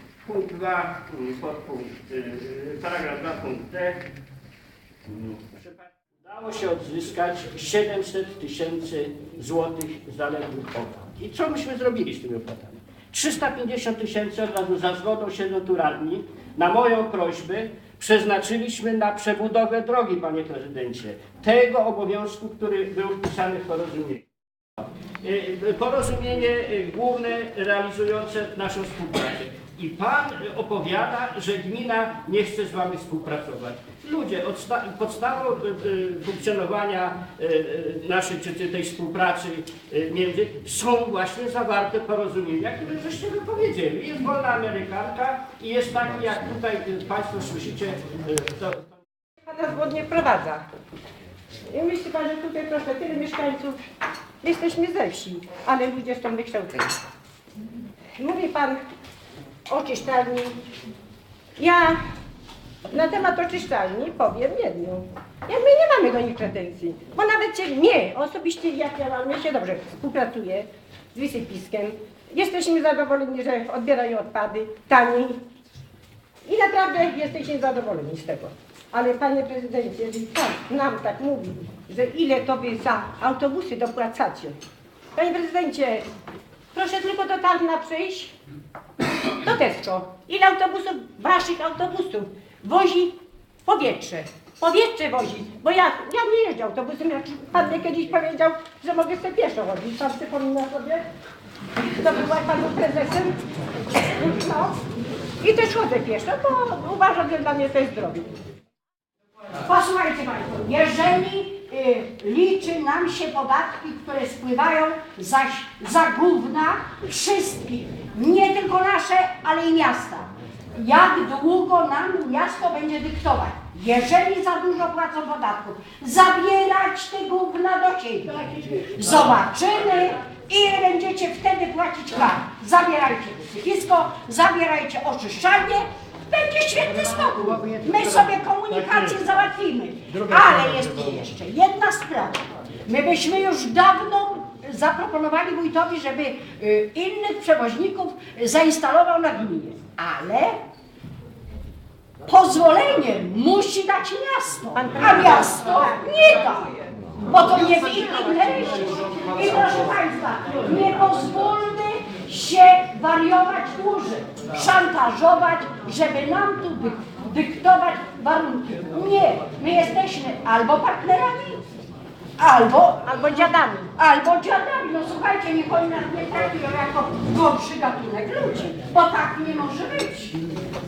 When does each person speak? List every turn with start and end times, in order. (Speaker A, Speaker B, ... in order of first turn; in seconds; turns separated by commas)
Speaker A: 0.2-4.1, Speaker A: 5.1-24.2, Speaker A: 24.8-49.0, Speaker B: 49.4-50.6, Speaker B: 51.7-53.8, Speaker B: 54.4-57.0, Speaker B: 58.2-58.8, Speaker B: 59.7-60.6, Speaker B: 61.6-62.0, Speaker B: 62.9-75.4, Speaker B: 76.5-84.6, Speaker B: 85.1-86.1, Speaker B: 86.7-88.3, Speaker B: 89.3-101.0, Speaker B: 101.9-103.4, Speaker B: 104.0-104.8, Speaker B: 105.4-108.3, Speaker C: 109.6-150.6, Speaker A: 137.6-139.1, Speaker A: 140.4-140.7, Speaker C: 152.3-156.7, Speaker B: 154.8-155.8, Speaker C: 157.2-171.6, Speaker C: 172.4-180.3, Speaker B: 173.0-173.9